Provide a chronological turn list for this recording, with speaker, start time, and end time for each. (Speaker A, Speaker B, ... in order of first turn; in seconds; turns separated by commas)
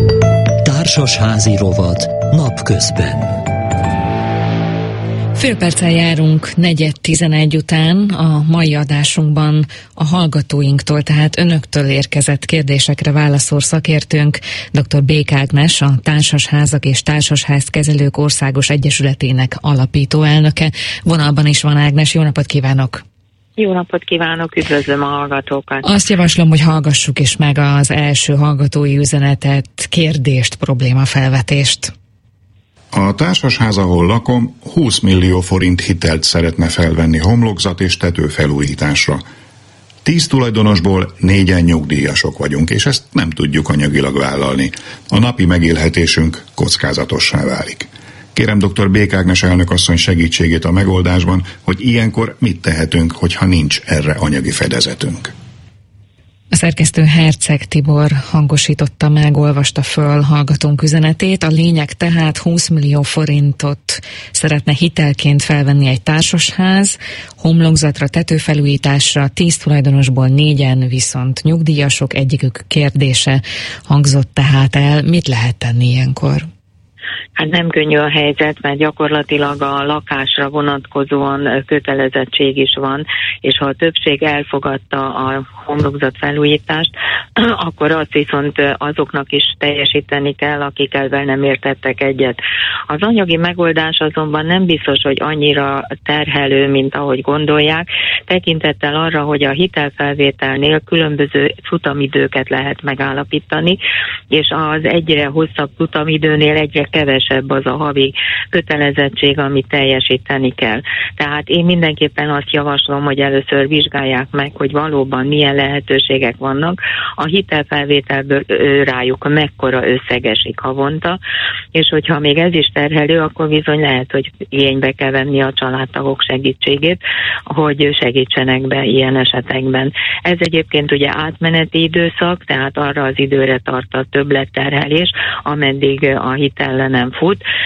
Speaker A: 0.6-3.4, Speaker B: 5.3-23.0, Speaker C: 23.6-25.8, Speaker B: 25.8-31.9, Speaker D: 32.9-39.2, Speaker D: 40.0-55.3, Speaker B: 56.5-76.5, Speaker C: 77.3-92.4, Speaker C: 92.9-103.8, Speaker C: 104.3-121.2, Speaker C: 121.7-137.4